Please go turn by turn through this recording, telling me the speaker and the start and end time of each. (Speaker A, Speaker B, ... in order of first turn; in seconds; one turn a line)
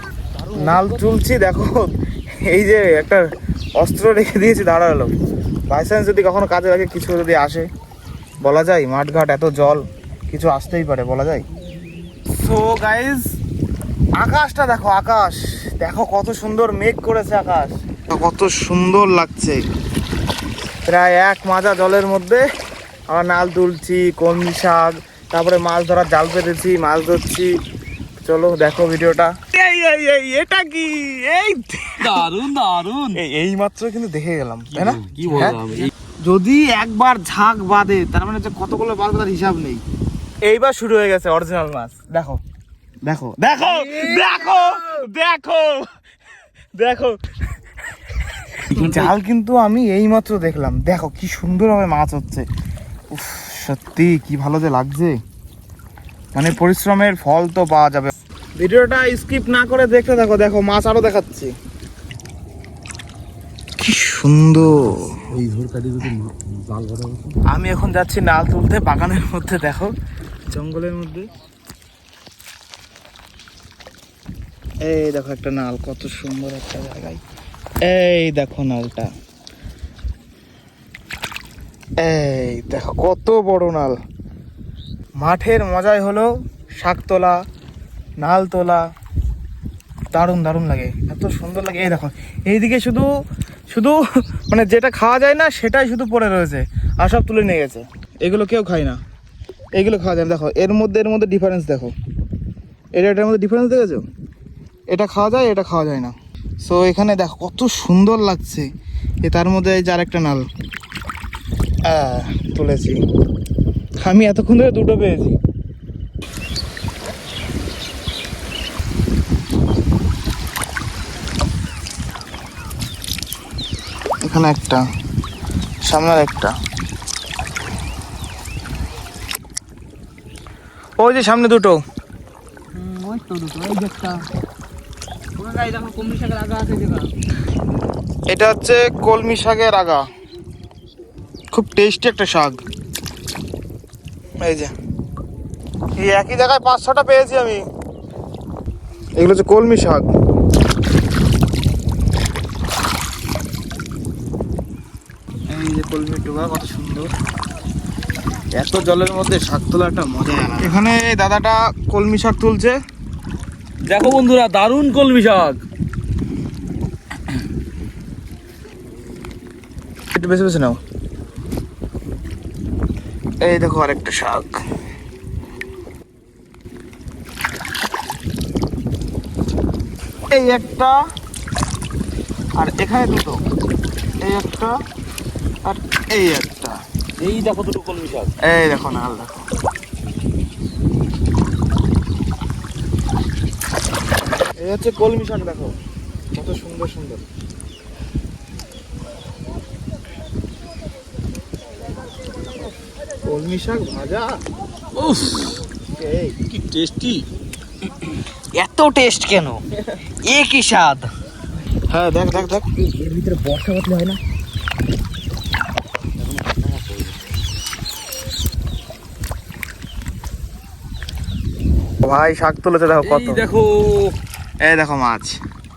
Speaker A: 0.4-0.8
Speaker B: 0.5-1.9
Speaker B: 2.5-3.2
Speaker B: 3.8-5.1
Speaker B: 5.7-7.7
Speaker B: 8.4-11.4
Speaker B: 12.3-13.2
Speaker B: 14.2-19.6
Speaker B: 20.9-22.4
Speaker B: 23.1-27.5
Speaker B: 28.2-32.2
Speaker A: 32.0-33.2
Speaker B: 33.1-35.6
Speaker A: 34.7-35.9
Speaker B: 36.2-39.8
Speaker B: 40.4-42.4
Speaker B: 43.0-45.9
Speaker B: 46.8-47.2
Speaker B: 48.5-52.5
Speaker A: 48.7-49.1
Speaker B: 53.1-55.2
Speaker B: 56.3-61.5
Speaker B: 63.8-65.2
Speaker A: 65.3-67.4
Speaker B: 67.5-69.9
Speaker B: 70.5-71.3
Speaker B: 74.8-77.2
Speaker B: 77.9-79.1
Speaker B: 82.0-83.9
Speaker B: 85.2-87.4
Speaker B: 88.2-88.8
Speaker B: 90.1-93.1
Speaker B: 93.7-99.0
Speaker B: 99.8-101.9
Speaker B: 103.0-104.0
Speaker B: 104.9-108.7
Speaker B: 109.2-110.5
Speaker B: 111.9-113.0
Speaker B: 114.0-115.3
Speaker B: 124.2-124.8
Speaker B: 125.8-126.5
Speaker B: 131.0-131.8
Speaker C: 132.7-134.2
Speaker C: 135.3-137.1
Speaker B: 138.3-140.0
Speaker B: 141.5-142.6
Speaker B: 144.4-144.7
Speaker B: 146.0-147.6
Speaker B: 149.2-150.1
Speaker B: 155.5-157.1
Speaker B: 158.6-162.8
Speaker A: 163.8-165.6
Speaker B: 170.1-170.8
Speaker B: 173.4-174.6
Speaker B: 180.3-181.0
Speaker B: 182.6-183.4
Speaker B: 184.2-184.7
Speaker B: 185.6-186.8
Speaker A: 187.2-188.3
Speaker B: 188.4-189.4
Speaker B: 194.6-195.7
Speaker B: 196.3-197.2
Speaker B: 203.2-204.4
Speaker A: 204.9-205.6
Speaker B: 205.9-206.4
Speaker A: 206.5-207.2
Speaker C: 208.5-209.6
Speaker C: 210.2-211.1
Speaker B: 211.9-214.2
Speaker A: 216.2-217.2
Speaker B: 222.0-223.4
Speaker A: 223.0-224.2
Speaker B: 224.6-225.4